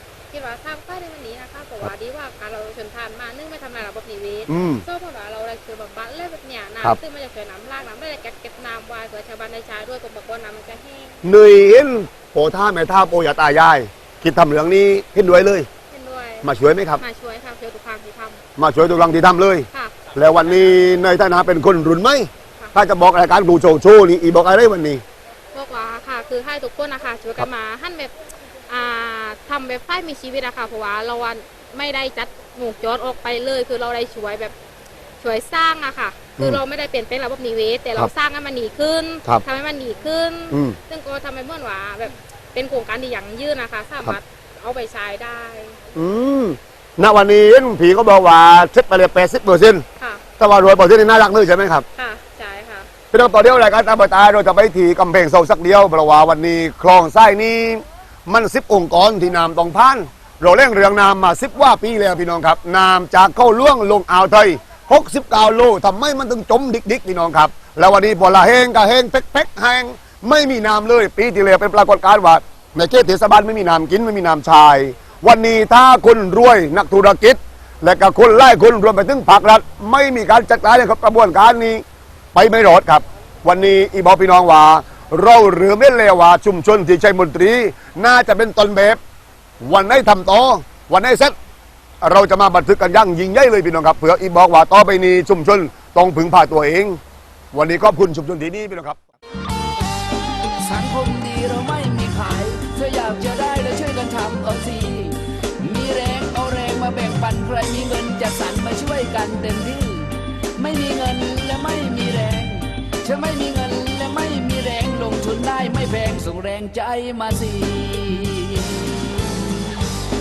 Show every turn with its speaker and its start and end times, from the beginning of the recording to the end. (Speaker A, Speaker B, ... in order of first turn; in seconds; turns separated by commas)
Speaker A: 0.3-11.2, Speaker B: 4.5-4.8, Speaker B: 11.2-15.7, Speaker A: 15.9-16.5, Speaker B: 16.4-17.0, Speaker A: 17.0-18.4, Speaker B: 18.6-25.0, Speaker A: 19.7-20.6, Speaker A: 25.5-28.1, Speaker A: 28.7-34.5, Speaker A: 35.2-45.8, Speaker B: 40.5-40.8, Speaker B: 45.9-49.8, Speaker B: 50.4-51.9, Speaker A: 52.0-52.9, Speaker B: 53.1-81.8, Speaker B: 82.3-89.0, Speaker B: 89.6-91.3, Speaker B: 92.0-97.0, Speaker B: 97.5-99.0, Speaker C: 100.6-119.4